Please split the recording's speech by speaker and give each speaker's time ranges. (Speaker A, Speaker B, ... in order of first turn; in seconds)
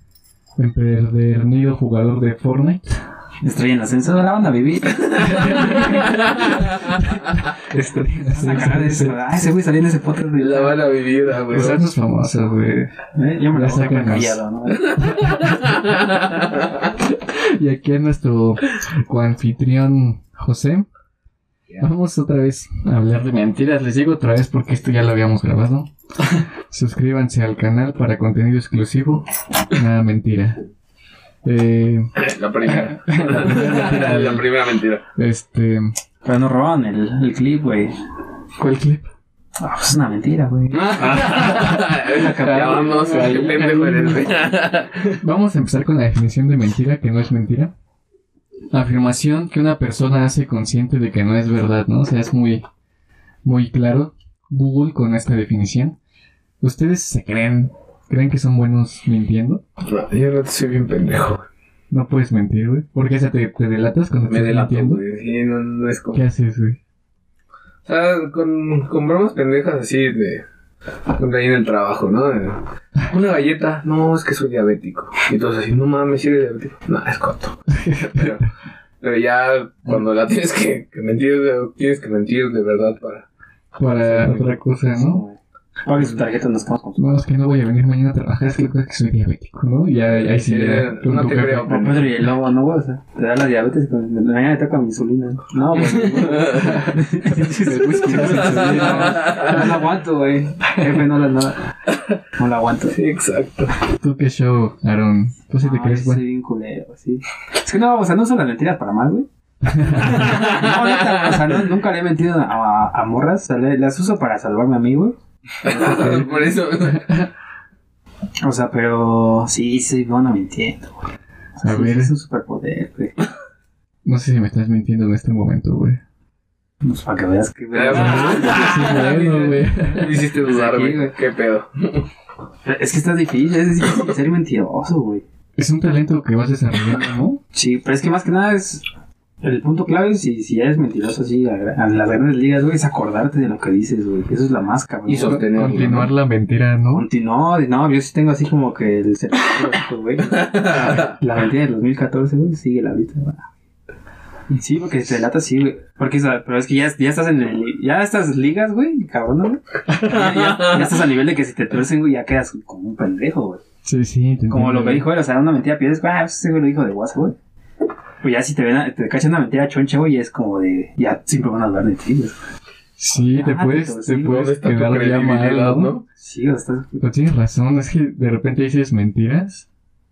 Speaker A: 0.6-2.9, 5.4-6.1, 6.9-9.2, 11.5-12.9, 13.5-14.4, 15.2-15.8, 17.0-20.9, 21.8-25.9, 26.7-30.6, 31.4-34.5, 35.1-36.0, 38.6-39.1, 41.3-44.3, 45.2-47.7, 48.7-52.6, 53.4-56.0, 56.6-59.6, 61.9-65.0, 66.1-66.8, 77.7-78.5, 83.8-85.2, 87.0-92.1, 96.6-99.7, 104.0-106.2, 109.7-110.2, 117.0-117.3, 121.6-122.1, 124.0-126.0, 127.9-130.2, 135.6-137.4, 145.2-147.1, 163.8-165.1, 173.0-176.0, 177.0-179.7
Speaker B: 3.4-6.0, 8.3-10.9, 13.1-14.9, 36.2-38.0, 39.6-43.4, 84.9-87.2, 91.7-101.7, 102.4-103.0, 105.6-109.3, 109.8-116.4, 118.4-123.2, 126.8-129.1, 129.7-131.2, 132.6-135.2, 137.5-138.8, 139.4-145.4, 146.9-153.5, 154.5-163.6, 164.5-167.4, 168.2-172.4, 173.1-174.5, 176.2-177.1
Speaker C: 5.1-7.0, 10.4-11.8, 14.8-16.9, 32.2-35.0, 40.7-45.2, 59.8-61.5, 64.3-66.2, 67.9-70.5, 71.1-78.5, 79.0-83.3, 84.0-84.6, 90.2-92.2, 95.9-96.8, 98.2-99.6, 102.9-103.7, 110.2-111.1, 115.6-117.1, 127.7-132.1, 145.1-146.1, 150.3-151.1, 159.9-160.9, 174.2-176.1